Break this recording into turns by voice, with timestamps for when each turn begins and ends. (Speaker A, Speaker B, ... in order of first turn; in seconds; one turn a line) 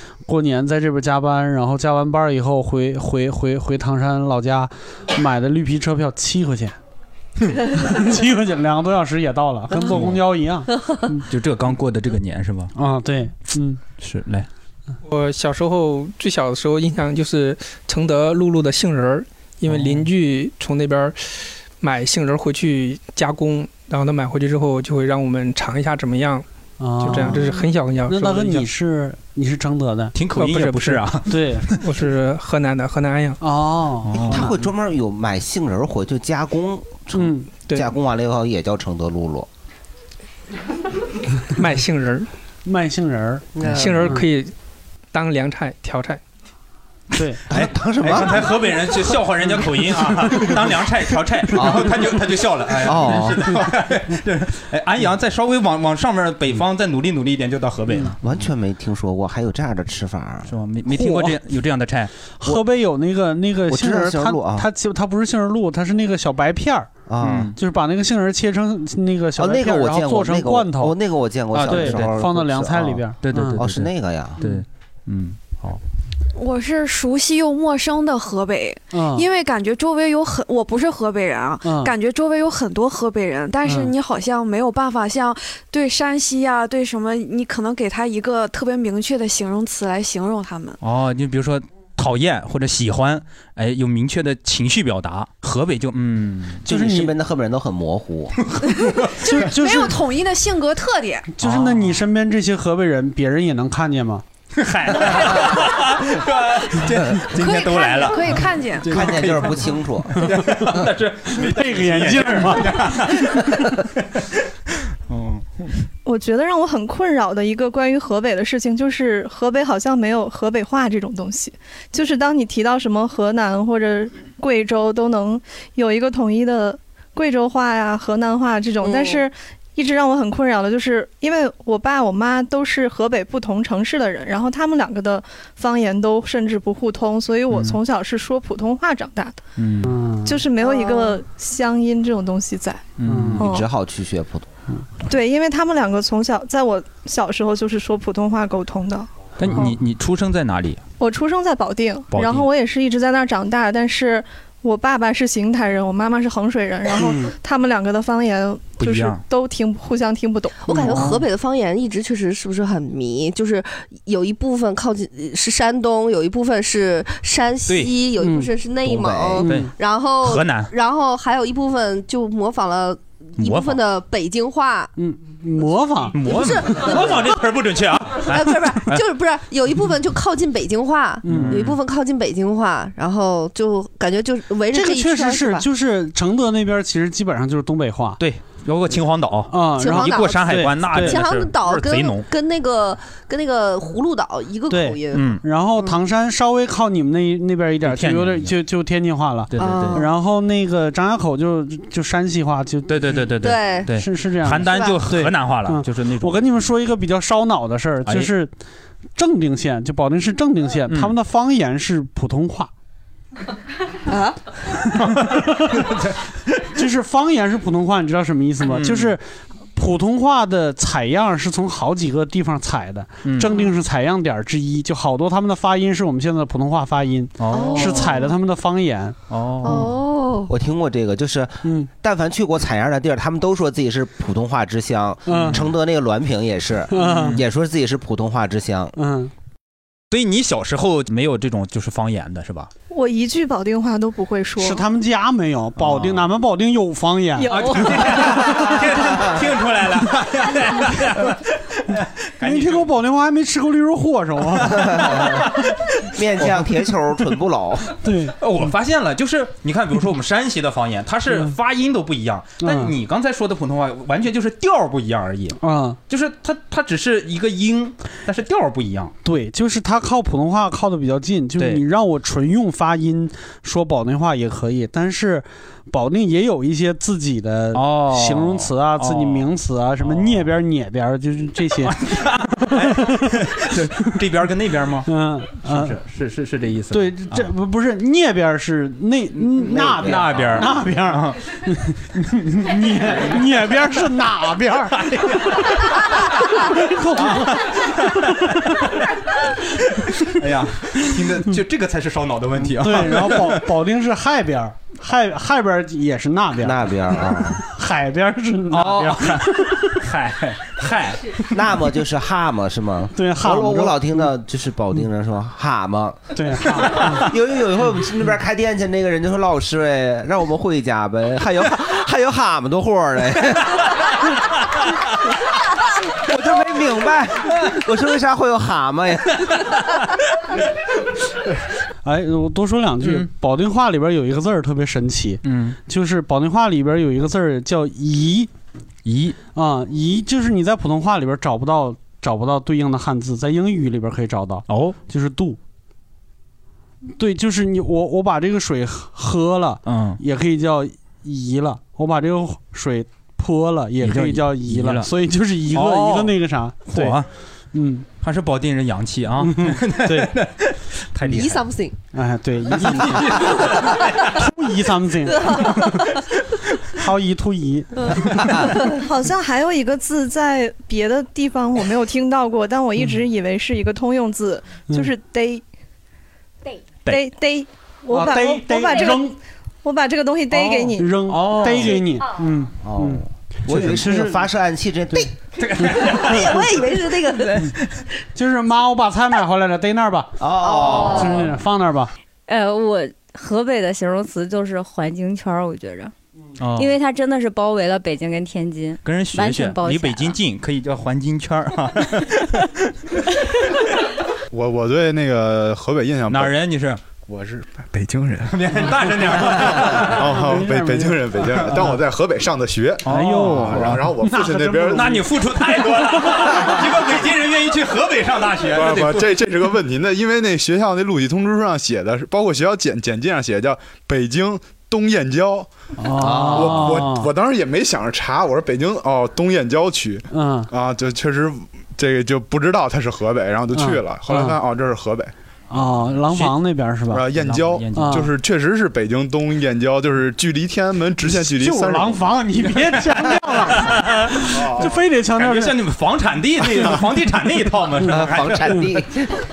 Speaker A: 0.3-6.8
Speaker A: 7.7-11.2
Speaker B: 9.8-10.2
Speaker B: 11.3-12.7
Speaker A: 12.8-13.8
Speaker B: 14.0-14.5
Speaker C: 15.0-26.5
Speaker A: 26.8-30.1
Speaker C: 27.0-28.7
Speaker B: 30.1-31.8
Speaker C: 30.4-31.1
Speaker A: 31.3-31.7
Speaker C: 31.8-33.4
Speaker A: 33.4-34.5
Speaker B: 34.0-34.5
Speaker D: 34.3-39.5
Speaker A: 37.1-37.5
Speaker C: 41.6-42.3
Speaker A: 42.7-44.2
Speaker D: 43.6-44.1
Speaker C: 43.7-44.5
Speaker C: 45.1-46.2
Speaker B: 47.5-58.2
Speaker D: 47.5-48.5
Speaker D: 51.5-52.0
Speaker D: 52.8-53.6
Speaker D: 58.2-60.5
Speaker B: 60.5-62.1
Speaker A: 60.9-61.4
Speaker A: 62.4-66.9
Speaker D: 63.7-64.7
Speaker D: 67.1-67.5
Speaker B: 67.2-67.6
Speaker A: 67.6-71.0
Speaker D: 69.4-73.0
Speaker B: 71.5-72.1
Speaker A: 71.7-73.6
Speaker B: 73.2-75.8
Speaker D: 73.6-74.4
Speaker E: 76.3-90.8
Speaker A: 78.9-79.3
Speaker A: 81.6-81.9
Speaker A: 83.7-83.9
Speaker B: 90.8-96.6
Speaker D: 96.7-98.3
Speaker A: 96.7-97.1
Speaker E: 99.2-101.3
Speaker A: 99.3-100.0
Speaker A: 101.4-104.2
Speaker B: 101.4-101.9
Speaker B: 104.6-114.2
Speaker E: 107.3-109.0
Speaker D: 108.9-110.2
Speaker A: 110.2-110.6
Speaker A: 111.3-113.0
Speaker B: 115.1-115.8
Speaker F: 116.0-139.4
Speaker G: 128.8-129.2
Speaker B: 137.5-137.8
Speaker B: 139.6-139.9
Speaker A: 139.8-140.4
Speaker F: 140.2-142.8
Speaker B: 143.0-143.4
Speaker A: 143.1-143.4
Speaker F: 143.4-143.7
Speaker D: 143.4-144.5
Speaker F: 145.1-149.1
Speaker B: 149.4-150.8
Speaker F: 151.0-160.7
Speaker B: 152.1-152.5
Speaker B: 158.8-159.2
Speaker G: 160.6-174.9
Speaker A: 160.7-161.2
Speaker B: 167.7-168.0
Speaker A: 168.2-168.5
Speaker D: 168.8-169.4
Speaker A: 169.4-169.7
Speaker B: 169.4-170.7
Speaker B: 173.4-173.8
Speaker A: 175.0-176.2
Speaker B: 176.1-179.0
Speaker G: 176.2-177.5
Speaker G: 178.2-185.7
Speaker A: 181.2-181.6
Speaker B: 181.3-181.8
Speaker A: 184.7-188.2
Speaker B: 188.2-192.3
Speaker A: 189.5-191.2
Speaker G: 189.8-195.3
Speaker A: 194.7-203.3
Speaker B: 195.1-195.4
Speaker B: 197.8-198.6
Speaker B: 199.5-200.1
Speaker G: 199.6-200.1
Speaker B: 202.9-206.5
Speaker G: 203.4-203.9
Speaker A: 203.9-208.5
Speaker G: 204.7-205.0
Speaker B: 208.1-208.3
Speaker A: 209.2-212.7
Speaker B: 210.9-211.2
Speaker B: 214.9-216.6
Speaker A: 215.0-215.9
Speaker A: 216.8-219.2
Speaker B: 218.6-219.2
Speaker A: 219.8-229.2
Speaker B: 223.2-223.6
Speaker B: 227.4-228.1
Speaker G: 227.5-228.1
Speaker B: 229.3-229.9
Speaker G: 229.6-230.5
Speaker D: 230.5-238.9
Speaker A: 231.6-231.9
Speaker A: 235.3-235.7
Speaker A: 236.9-237.4
Speaker B: 237.0-237.4
Speaker A: 239.0-239.3
Speaker B: 240.1-242.7
Speaker F: 242.9-244.8
Speaker A: 244.6-248.6
Speaker B: 245.8-246.2
Speaker B: 247.4-252.9
Speaker A: 252.4-255.3
Speaker D: 254.8-255.4
Speaker D: 256.1-257.9
Speaker A: 258.0-258.7
Speaker B: 258.4-269.1
Speaker A: 262.6-262.9
Speaker A: 265.6-266.0
Speaker A: 269.2-283.4
Speaker B: 271.6-271.8
Speaker B: 277.7-279.5
Speaker B: 280.0-280.5
Speaker B: 281.8-285.1
Speaker A: 285.1-286.0
Speaker B: 285.6-287.5
Speaker A: 286.9-298.9
Speaker D: 289.6-290.6
Speaker B: 289.8-291.4
Speaker B: 293.1-293.4
Speaker B: 295.0-296.5
Speaker B: 297.1-299.1
Speaker B: 299.8-303.7
Speaker A: 302.8-310.0
Speaker D: 306.6-307.6
Speaker B: 308.7-311.4
Speaker D: 311.5-323.8
Speaker A: 313.1-314.3
Speaker A: 316.4-317.3
Speaker D: 326.3-329.5
Speaker A: 332.0-338.5
Speaker B: 335.4-335.8
Speaker B: 339.1-339.4
Speaker A: 339.5-345.6
Speaker B: 344.7-345.0
Speaker A: 347.2-357.2
Speaker B: 349.8-350.2
Speaker B: 354.0-355.1
Speaker B: 355.7-356.4
Speaker B: 356.9-357.3
Speaker A: 357.7-358.1
Speaker B: 358.2-361.6
Speaker A: 359.4-360.4
Speaker G: 361.3-362.0
Speaker A: 362.1-363.5
Speaker B: 362.8-364.4
Speaker A: 364.2-366.0
Speaker G: 365.3-365.7
Speaker A: 367.0-368.6
Speaker F: 368.9-375.6
Speaker F: 377.1-381.2
Speaker A: 378.1-379.4
Speaker A: 380.5-384.5
Speaker B: 381.3-382.0
Speaker D: 382.8-385.3
Speaker B: 385.6-386.6
Speaker A: 385.8-386.6
Speaker G: 386.2-387.7
Speaker A: 388.4-390.4
Speaker D: 390.4-391.4
Speaker G: 390.6-391.3
Speaker A: 391.0-392.1
Speaker H: 392.5-396.1
Speaker B: 396.6-397.0
Speaker H: 396.8-400.4
Speaker B: 399.0-402.9
Speaker I: 404.5-406.6
Speaker B: 406.3-407.0
Speaker I: 407.3-408.7
Speaker B: 408.5-410.3
Speaker A: 409.9-411.4
Speaker I: 410.0-415.2
Speaker B: 413.0-414.0
Speaker A: 413.1-416.6
Speaker B: 414.9-419.4
Speaker I: 418.7-425.7
Speaker A: 426.0-427.3
Speaker D: 426.2-426.9
Speaker I: 426.4-435.3
Speaker A: 430.3-430.7
Speaker A: 433.7-434.6
Speaker A: 435.7-437.2
Speaker B: 436.3-436.5
Speaker I: 437.1-442.3
Speaker B: 437.3-438.3
Speaker A: 437.9-438.3
Speaker A: 441.2-445.8
Speaker B: 443.7-448.8
Speaker I: 444.5-444.9
Speaker A: 448.0-448.9
Speaker D: 448.1-449.3